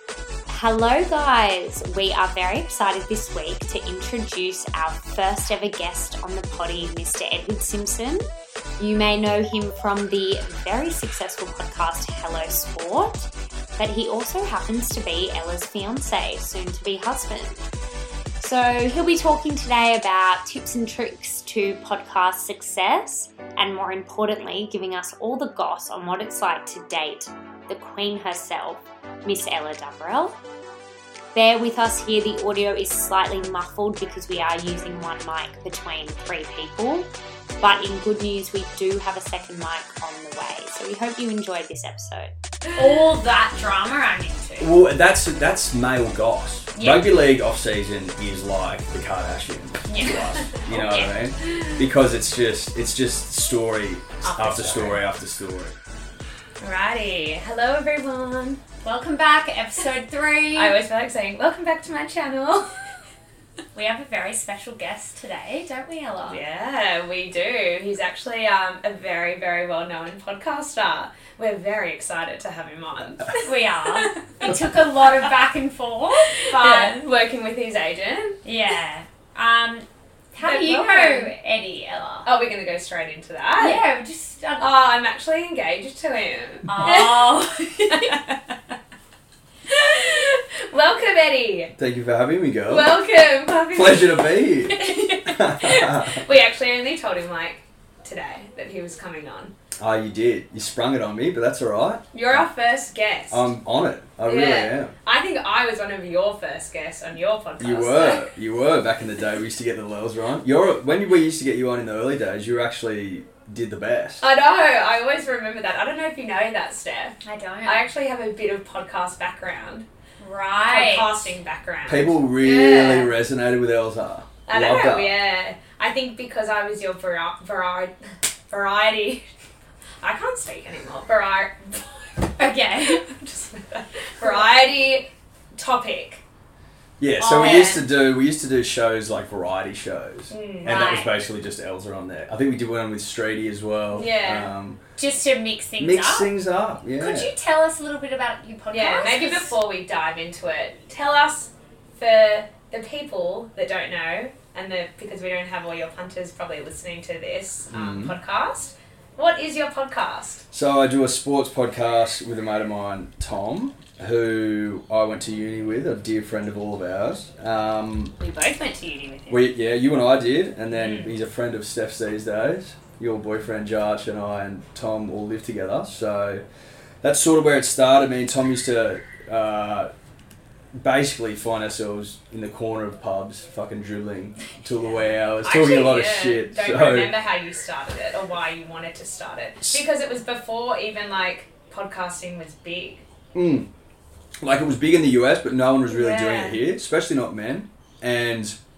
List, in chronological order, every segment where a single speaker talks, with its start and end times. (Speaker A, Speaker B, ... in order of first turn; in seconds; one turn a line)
Speaker A: 0.5-8.2
Speaker A: 8.8-17.6
Speaker A: 18.4-30.3
Speaker A: 31.3-37.1
Speaker A: 37.6-44.7
Speaker B: 44.6-55.8
Speaker A: 46.8-47.1
Speaker A: 49.9-51.1
Speaker C: 51.4-51.8
Speaker C: 54.2-55.0
Speaker C: 56.6-58.6
Speaker A: 58.8-60.8
Speaker C: 60.5-62.8
Speaker A: 63.7-66.4
Speaker C: 66.3-74.6
Speaker A: 73.4-77.0
Speaker C: 76.4-78.4
Speaker A: 78.4-82.3
Speaker C: 80.4-81.3
Speaker C: 82.2-83.8
Speaker A: 83.6-84.7
Speaker C: 84.6-88.4
Speaker A: 86.7-88.1
Speaker C: 89.7-91.7
Speaker B: 91.8-93.0
Speaker C: 92.7-99.5
Speaker B: 93.7-96.2
Speaker B: 99.8-102.4
Speaker C: 102.1-103.5
Speaker B: 103.3-104.9
Speaker C: 104.3-108.3
Speaker B: 107.6-114.2
Speaker C: 114.2-119.9
Speaker A: 117.2-117.8
Speaker A: 120.2-121.1
Speaker C: 120.7-123.1
Speaker B: 121.9-125.1
Speaker A: 122.4-122.8
Speaker C: 124.5-127.9
Speaker C: 128.5-129.2
Speaker C: 130.0-136.2
Speaker A: 132.4-133.0
Speaker B: 137.0-144.8
Speaker A: 137.2-137.8
Speaker C: 137.2-137.8
Speaker C: 140.3-140.9
Speaker A: 140.6-141.1
Speaker C: 143.9-144.5
Speaker A: 145.0-146.3
Speaker B: 145.8-147.3
Speaker A: 147.0-149.5
Speaker C: 148.7-160.4
Speaker B: 157.7-158.2
Speaker B: 160.5-168.1
Speaker C: 168.2-169.4
Speaker B: 169.3-176.4
Speaker C: 170.7-171.1
Speaker B: 177.0-179.9
Speaker B: 180.8-187.2
Speaker C: 185.4-193.1
Speaker B: 193.3-193.7
Speaker B: 194.4-198.6
Speaker C: 195.9-196.6